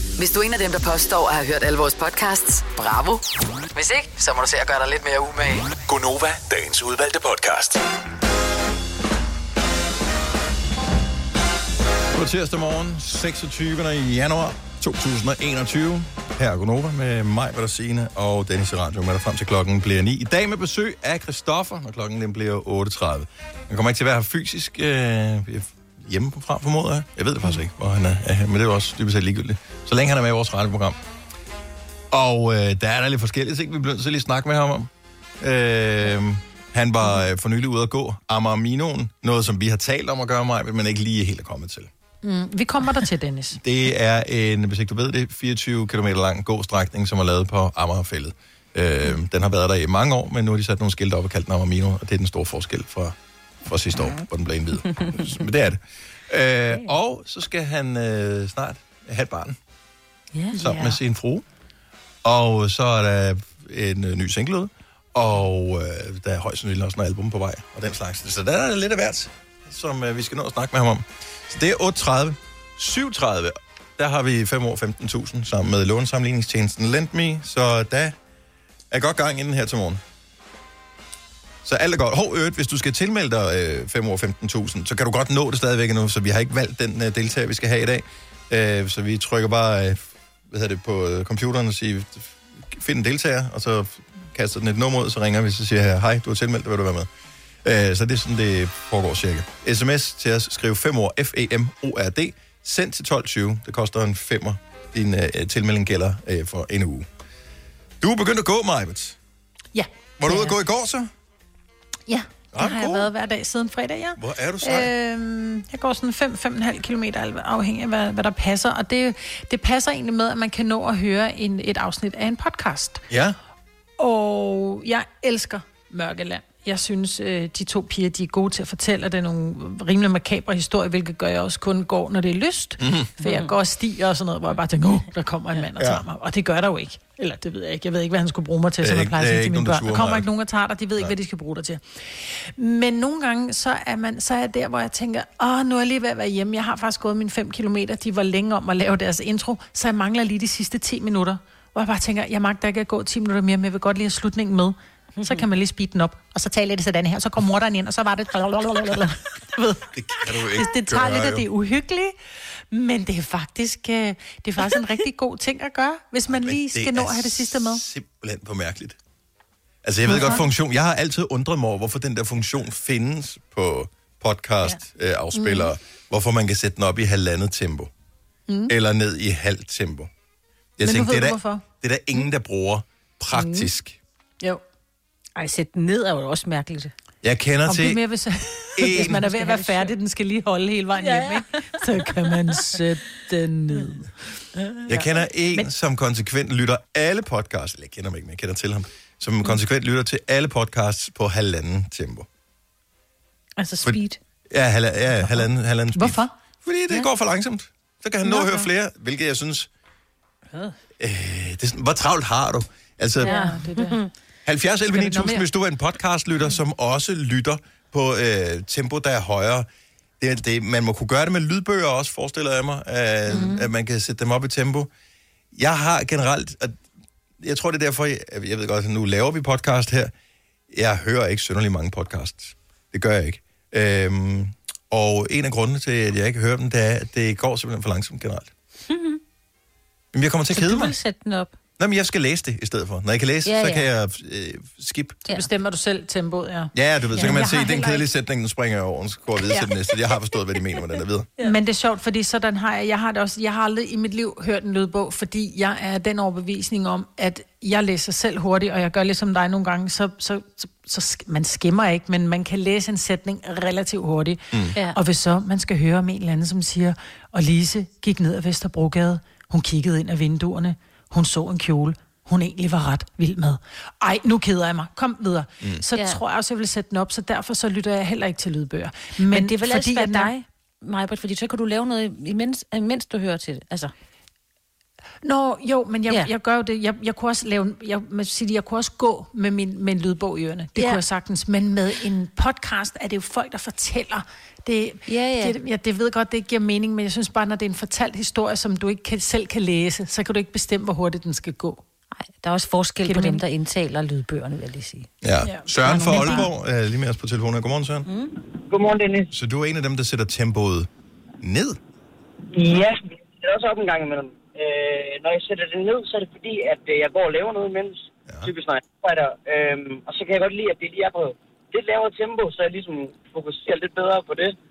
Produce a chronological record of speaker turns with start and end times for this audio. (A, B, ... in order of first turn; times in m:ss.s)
0:00.2-0:05.8 A
0:05.9-0:07.8 B
0:12.1-0:31.0 C
0:32.1-0:34.9 C
0:35.4-0:41.9 C
0:42.2-0:43.6 D
0:43.6-0:59.6 C
1:00.3-1:01.0 E
1:00.5-1:01.4 C
1:02.2-1:18.2 C
1:18.9-1:20.0 C
1:21.6-1:37.1 C
1:37.6-1:47.1 C
1:48.0-1:49.2 C
1:49.7-1:50.6 D
1:50.2-1:51.1 C
1:52.1-2:03.0 D
1:52.5-1:53.1 C
1:54.2-1:54.9 C
2:03.1-2:03.4 C
2:04.0-2:42.2 D
2:12.8-2:13.1 C
2:13.2-2:13.5 E
2:15.8-2:16.1 C
2:18.8-2:20.3 C
2:35.2-2:35.4 E
2:39.9-2:41.4 C
2:42.7-2:47.8 D
2:46.3-2:49.0 C
2:49.8-2:57.9 C
2:50.1-2:50.4 D
2:55.3-2:55.7 D
2:58.5-2:58.7 D
2:58.7-3:00.1 C
3:00.8-3:04.0 C
3:00.8-3:01.6 D
3:03.3-3:03.7 D
3:05.4-3:06.9 E
3:07.2-3:08.0 C
3:07.7-3:14.1 D
3:08.8-3:09.2 C
3:08.9-3:09.9 E
3:11.0-3:11.6 E
3:14.9-3:22.3 C
3:14.9-3:15.7 D
3:23.6-3:24.2 E
3:23.8-3:29.7 C
3:26.0-3:26.3 D
3:28.2-3:28.7 E
3:31.0-3:33.4 C
3:33.2-3:34.0 D
3:33.2-3:34.1 E
3:34.4-3:39.7 C
3:34.9-3:35.5 D
3:40.2-3:44.9 C
3:43.3-3:43.7 E
3:45.5-3:46.8 C
3:47.4-3:50.1 C
3:50.7-3:58.5 C
3:58.9-3:59.2 E
4:00.1-4:00.9 C
4:00.5-4:01.5 E
4:01.8-4:05.2 C
4:03.4-4:03.9 E
4:05.3-4:08.0 D
4:06.7-4:11.3 C
4:07.1-4:07.5 E
4:11.4-4:40.3 D
4:24.7-4:25.0 E
4:35.9-4:36.2 E
4:39.3-4:43.9 E
4:45.2-5:01.8 D
4:50.8-4:51.0 E
4:55.1-4:55.6 E
5:02.2-5:05.1 E
5:03.0-5:03.4 D
5:05.2-5:08.1 C
5:05.4-5:06.4 D
5:05.8-5:06.5 E
5:08.1-5:08.3 E
5:08.7-5:09.3 F
5:09.3-5:10.9 C
5:11.4-5:11.8 C
5:12.5-5:24.6 F